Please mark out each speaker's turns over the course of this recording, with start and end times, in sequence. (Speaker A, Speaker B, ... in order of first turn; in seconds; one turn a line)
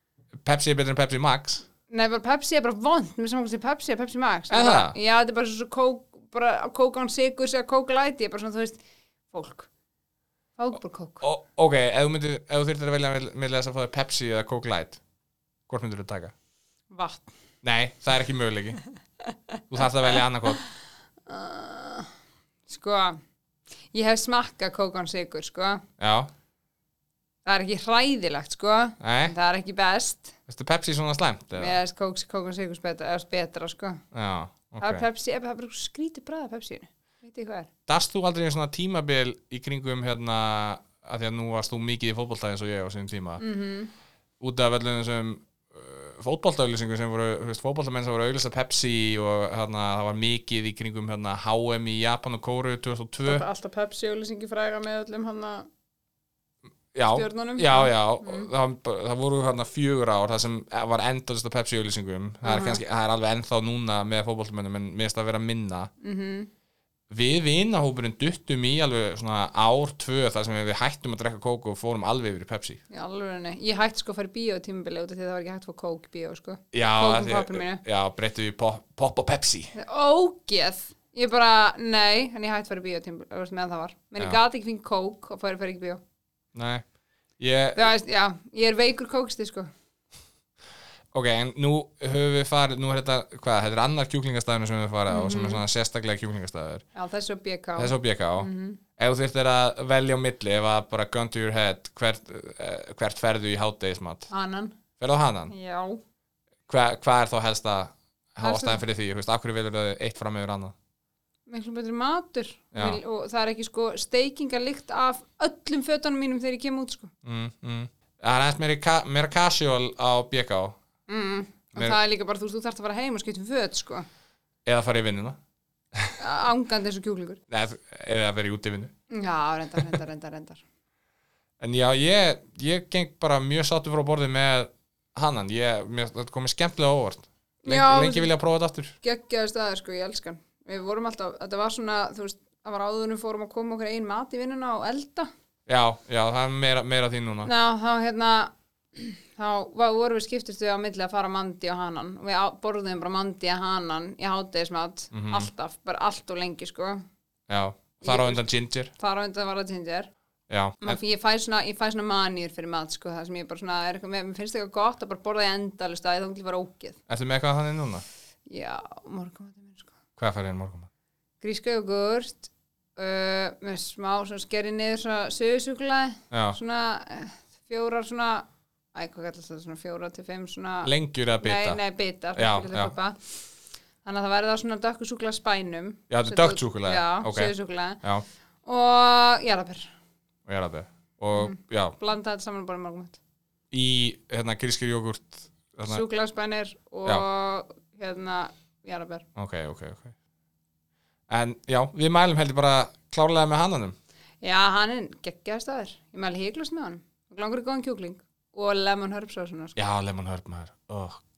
Speaker A: 0.5-1.6
Speaker B: 1.9-9.7
Speaker A: 4.5-5.0
Speaker B: 10.6-11.2
Speaker A: 11.2-15.0
Speaker A: 15.7-16.3
Speaker B: 16.9-17.3
Speaker A: 17.6-18.8
Speaker A: 19.7-20.6
Speaker B: 21.3-22.1
Speaker B: 22.7-23.2
Speaker B: 23.9-25.8
Speaker A: 26.0-26.3
Speaker B: 27.4-30.3
Speaker A: 29.0-29.3
Speaker A: 30.5-31.8
Speaker B: 31.6-34.0
Speaker A: 34.1-35.1
Speaker B: 34.8-37.7
Speaker A: 37.9-43.4
Speaker B: 43.4-43.9
Speaker A: 44.4-53.5
Speaker B: 53.2-55.7
Speaker A: 56.9-65.9
Speaker B: 57.1-58.5
Speaker B: 62.4-62.8
Speaker B: 66.0-66.5
Speaker A: 67.1-72.8
Speaker B: 72.9-77.8
Speaker A: 76.7-79.7
Speaker B: 79.7-86.0
Speaker A: 86.5-86.8
Speaker A: 87.4-87.9
Speaker B: 87.8-89.7
Speaker A: 91.1-96.8
Speaker B: 95.1-95.6
Speaker B: 97.0-98.8
Speaker A: 97.8-104.3
Speaker B: 104.3-104.8
Speaker A: 105.0-105.5
Speaker B: 105.5-106.0
Speaker A: 106.7-110.7
Speaker B: 108.4-108.8
Speaker B: 111.5-117.1
Speaker A: 112.7-113.0
Speaker A: 117.2-120.8
Speaker B: 121.1-124.0
Speaker A: 124.7-125.4
Speaker B: 126.2-127.4
Speaker A: 127.5-128.9
Speaker B: 129.1-130.6
Speaker A: 131.6-139.0
Speaker B: 137.6-138.3
Speaker B: 139.0-145.3
Speaker A: 145.7-147.5
Speaker B: 147.4-157.0
Speaker A: 155.1-155.5
Speaker A: 157.5-158.9
Speaker B: 158.0-160.1
Speaker A: 160.5-161.0
Speaker B: 160.8-167.0
Speaker A: 167.1-168.0
Speaker B: 168.5-169.9
Speaker A: 170.2-170.9
Speaker B: 171.4-183.4
Speaker A: 176.3-176.6
Speaker A: 180.8-181.8
Speaker A: 182.4-182.9
Speaker B: 184.0-188.0
Speaker A: 186.1-188.2
Speaker B: 188.7-189.9
Speaker A: 190.5-192.0
Speaker B: 191.3-193.2
Speaker A: 193.7-196.0
Speaker B: 195.9-199.2
Speaker A: 199.4-200.1
Speaker A: 201.3-203.9
Speaker B: 204.4-209.8
Speaker A: 209.8-211.2